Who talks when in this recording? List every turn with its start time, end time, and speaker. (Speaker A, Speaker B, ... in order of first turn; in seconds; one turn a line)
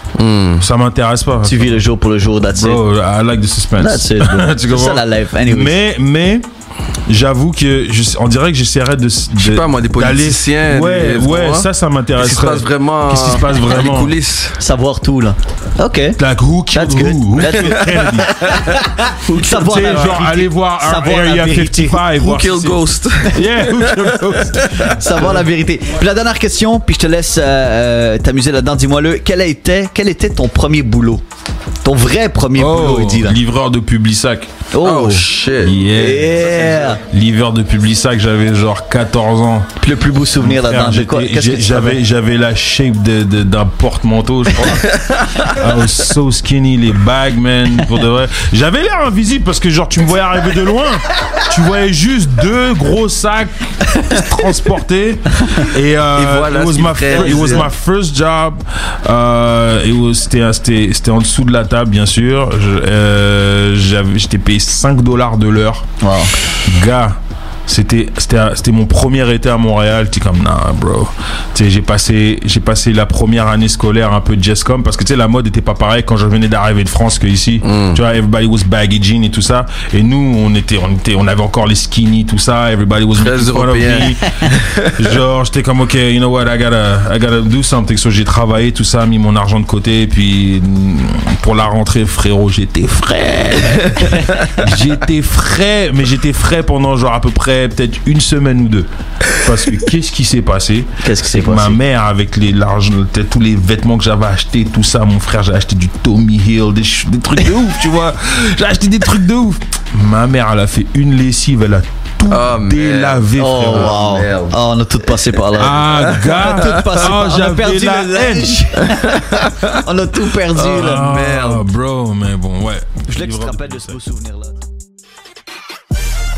Speaker A: 0.1-0.7
Speaker B: 0.6-1.8
Speaker C: 1.4-2.8
Speaker B: 2.5-6.5
Speaker C: 3.8-5.7
Speaker B: 7.1-14.1
Speaker A: 9.4-14.6
Speaker C: 14.6-16.2
Speaker B: 16.2-18.5
Speaker C: 16.7-22.0
Speaker A: 17.5-18.7
Speaker A: 19.2-20.2
Speaker B: 19.5-25.4
Speaker A: 22.2-24.9
Speaker C: 24.9-31.2
Speaker C: 31.8-33.4
Speaker B: 32.5-34.5
Speaker C: 34.7-35.3
Speaker A: 34.8-35.8
Speaker B: 35.6-39.7
Speaker C: 35.9-37.0
Speaker C: 39.8-42.0
Speaker B: 40.4-44.9
Speaker A: 44.7-45.5
Speaker B: 45.5-65.8
Speaker A: 56.1-57.7
Speaker C: 57.1-57.6
Speaker C: 66.0-66.3
Speaker B: 66.5-114.0
Speaker A: 77.6-78.0
Speaker A: 83.1-85.1
Speaker C: 101.0-101.8
Speaker A: 112.3-114.6
Speaker C: 113.3-121.1
Speaker B: 115.5-118.7
Speaker A: 115.8-116.7
Speaker A: 119.1-119.7
Speaker A: 120.5-121.6
Speaker B: 120.6-124.0
Speaker C: 123.1-124.6